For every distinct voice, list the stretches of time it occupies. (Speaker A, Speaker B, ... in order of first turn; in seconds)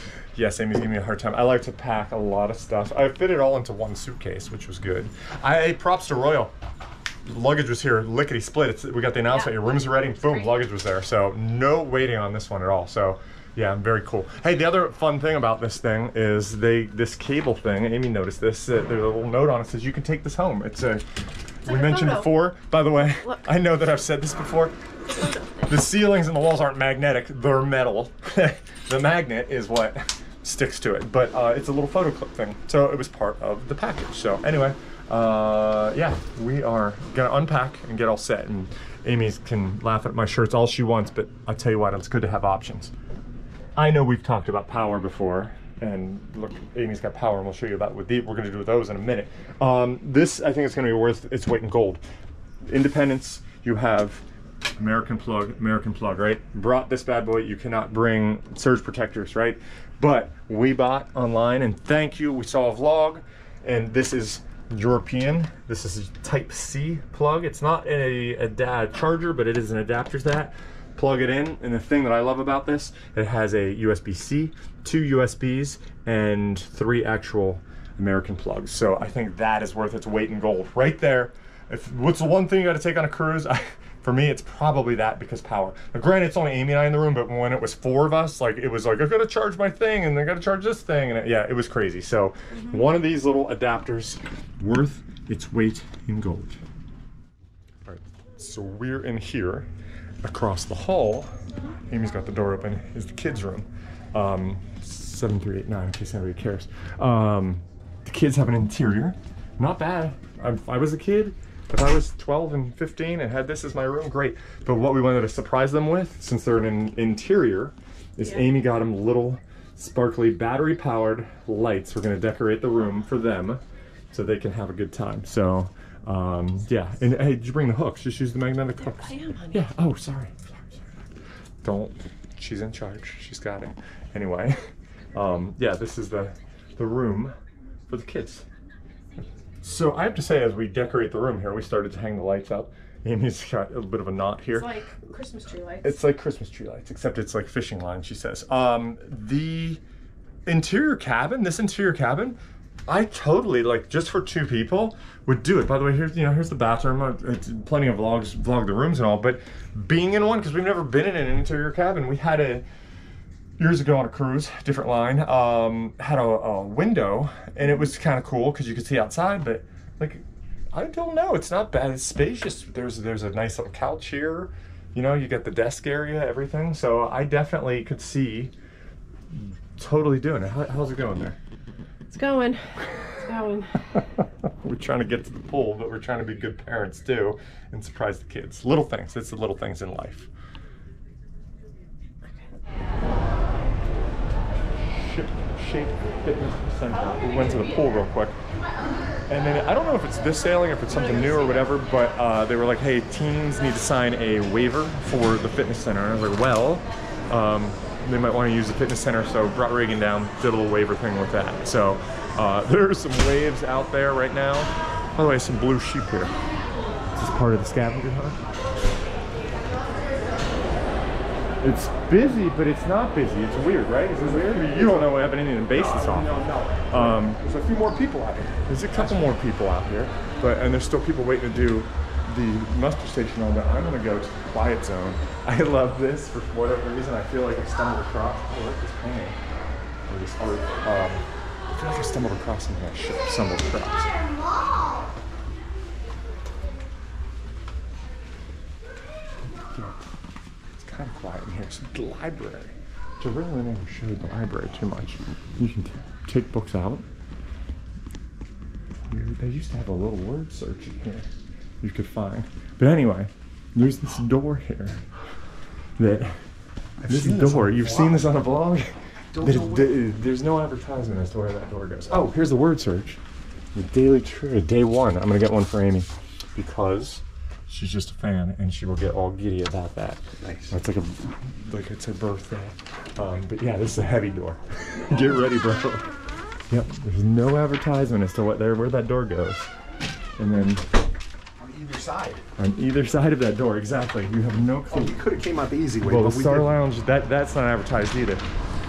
Speaker A: 0.3-6.5, 7.2-21.0, 21.6-24.8, 25.7-42.9, 43.8-52.0, 52.7-54.2, 54.8-96.6, 97.8-99.7, 100.2-101.3, 101.9-130.8, 131.6-134.6, 135.1-137.3, 137.9-138.4, 139.6-144.7, 145.8-149.8, 150.4-162.6, 163.6-178.5, 179.3-181.4, 184.4-190.3, 194.9-198.4, 199.3-216.3, 217.1-218.4, 221.6-239.4, 240.1-244.1, 249.6-250.0, 250.8-257.1, 259.1-261.3, 261.8-265.0, 266.0-266.4, 267.1-273.2, 273.7-286.1, 286.7-289.7, 290.4-290.9, 292.6-295.2, 296.0-298.4
Speaker B: 9.3-10.6, 21.7-22.5, 25.1-25.8, 128.8-129.7, 144.5-146.0, 182.1-183.8, 200.9-201.7
Speaker C: 224.2-227.8, 228.9-229.3, 267.0-268.4, 269.3-270.0, 280.4-280.7, 291.6-292.4, 294.9-296.7